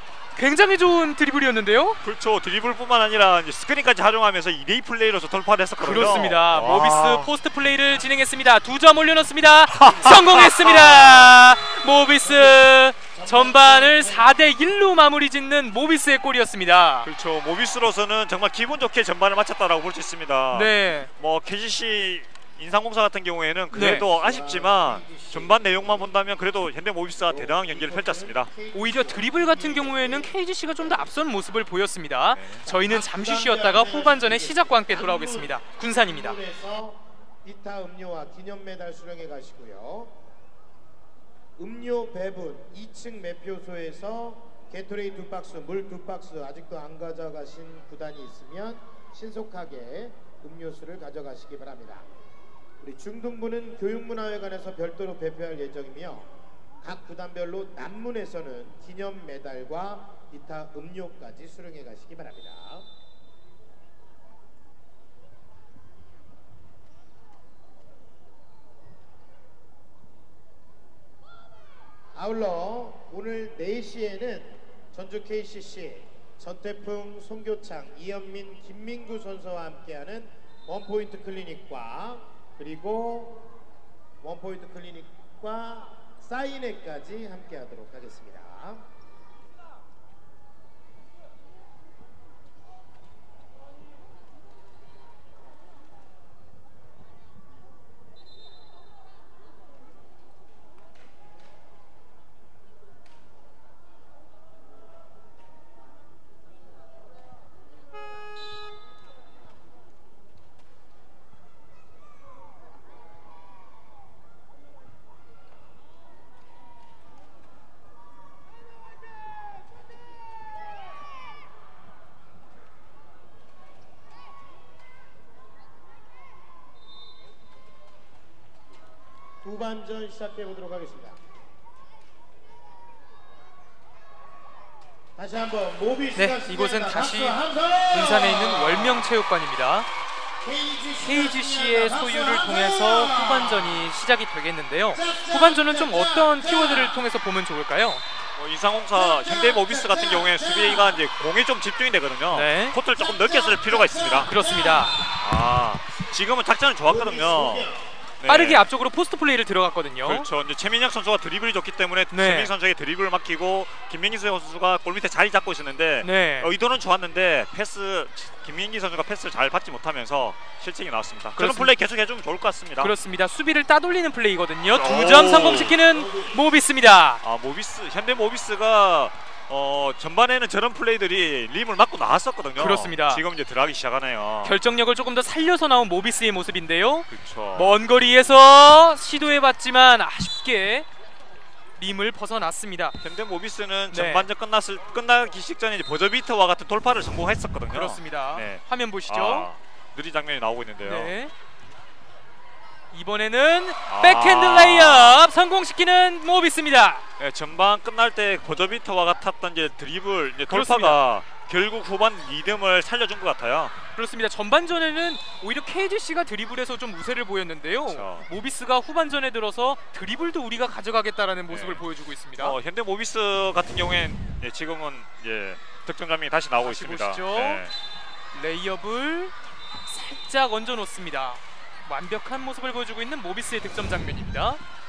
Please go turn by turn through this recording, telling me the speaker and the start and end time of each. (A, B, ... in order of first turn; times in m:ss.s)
0:00.4-0:02.0 A
0:02.0-0:07.3 B
0:05.8-0:17.1 A
0:09.8-0:11.1 B
0:12.2-0:14.4 C
0:17.0-0:28.5 B
0:20.5-0:21.1 A
0:23.7-0:26.3 C
0:23.7-0:24.1 A
0:27.2-0:31.1 C
0:28.7-0:36.4 A
0:32.3-0:32.6 B
0:32.6-0:40.2 C
0:41.6-0:52.0 C
0:52.8-0:56.3 C
0:56.8-1:02.9 C
1:12.2-1:23.6 C
1:24.2-1:28.8 C
2:09.4-2:11.2 C
2:15.2-2:19.0 C
2:16.2-2:19.9 A
2:20.4-2:23.8 C
2:21.0-2:28.0 A
2:24.9-2:27.0 C
2:28.4-2:34.3 B
2:28.9-2:31.0 C
2:32.3-2:32.8 A
2:33.0-2:35.3 C
2:34.2-2:35.0 A
2:35.2-2:38.7 B
2:36.9-2:37.8 C
2:38.3-2:40.3 A
2:40.0-2:53.0 B
2:42.1-2:42.5 A
2:46.0-2:46.5 A
2:51.4-2:51.7 A
2:52.8-2:57.2 A
2:54.6-2:55.8 B
2:54.8-2:56.4 C
2:57.2-3:04.6 B
3:02.6-3:03.2 A
3:04.4-3:10.9 A
3:07.1-3:07.8 B
3:11.8-3:13.0 A
3:13.0-3:21.2 B
3:13.9-3:14.3 A
3:17.7-3:19.5 A
3:20.8-3:21.3 A
3:22.9-3:27.0 A
3:23.9-3:25.2 B
3:27.2-3:33.8 B
3:30.5-3:31.0 A
3:34.0-3:42.6 A
3:37.9-3:38.3 B
3:41.5-3:41.8 B
3:42.4-3:47.7 B
3:46.6-3:47.6 A
3:48.3-3:49.3 A
3:49.9-3:54.6 A